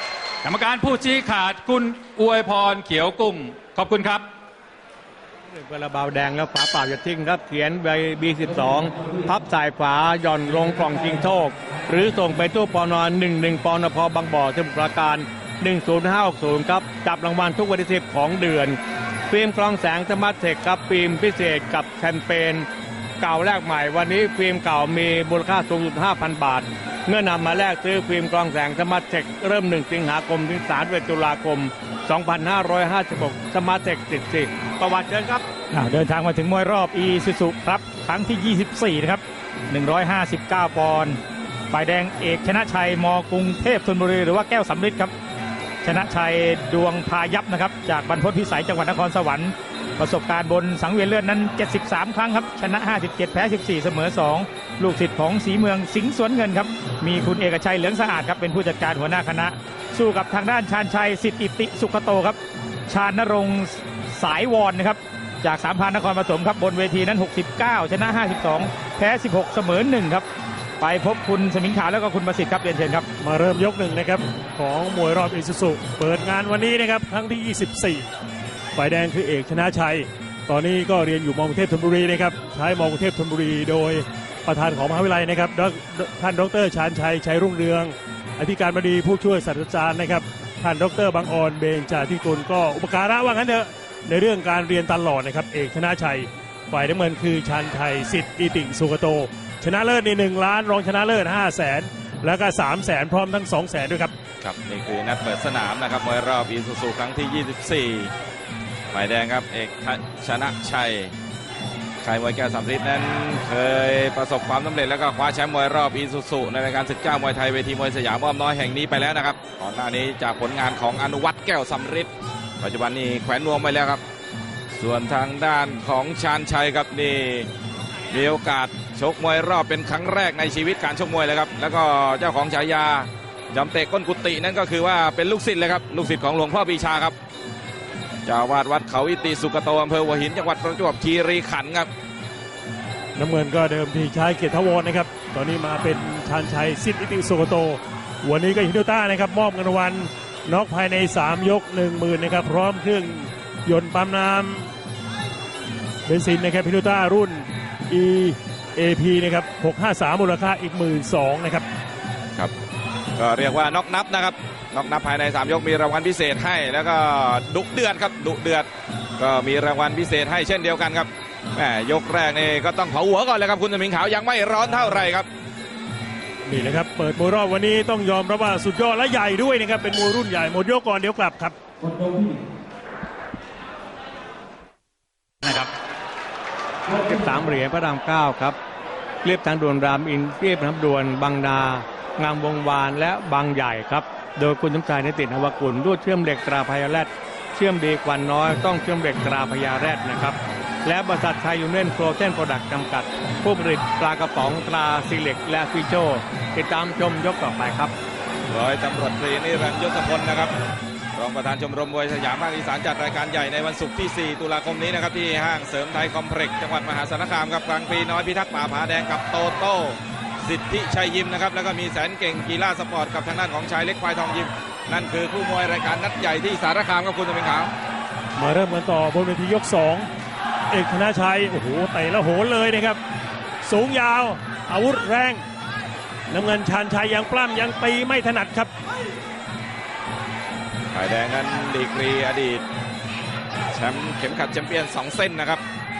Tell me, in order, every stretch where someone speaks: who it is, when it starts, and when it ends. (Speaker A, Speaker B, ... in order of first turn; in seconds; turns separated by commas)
Speaker A: 0.4-4.2, Speaker B: 5.5-22.7, Speaker B: 23.2-35.4, Speaker C: 35.7-41.2, Speaker C: 41.7-45.1, Speaker C: 45.8-70.2, Speaker C: 70.8-73.1, Speaker D: 73.2-78.1, Speaker D: 78.7-104.1, Speaker E: 104.4-108.1, Speaker E: 108.9-111.1, Speaker E: 112.0-124.0, Speaker E: 124.7-127.5, Speaker E: 128.1-137.2, Speaker E: 138.2-141.9, Speaker D: 143.2-154.7, Speaker D: 156.1-161.7, Speaker E: 163.2-175.3, Speaker D: 176.4-181.6, Speaker B: 186.9-188.6, Speaker B: 189.2-207.9, Speaker E: 208.5-210.5, Speaker E: 211.2-227.7, Speaker D: 228.4-230.1, Speaker D: 230.7-233.0, Speaker D: 233.6-235.4, Speaker D: 236.3-238.7, Speaker E: 240.9-242.6, Speaker E: 243.7-245.6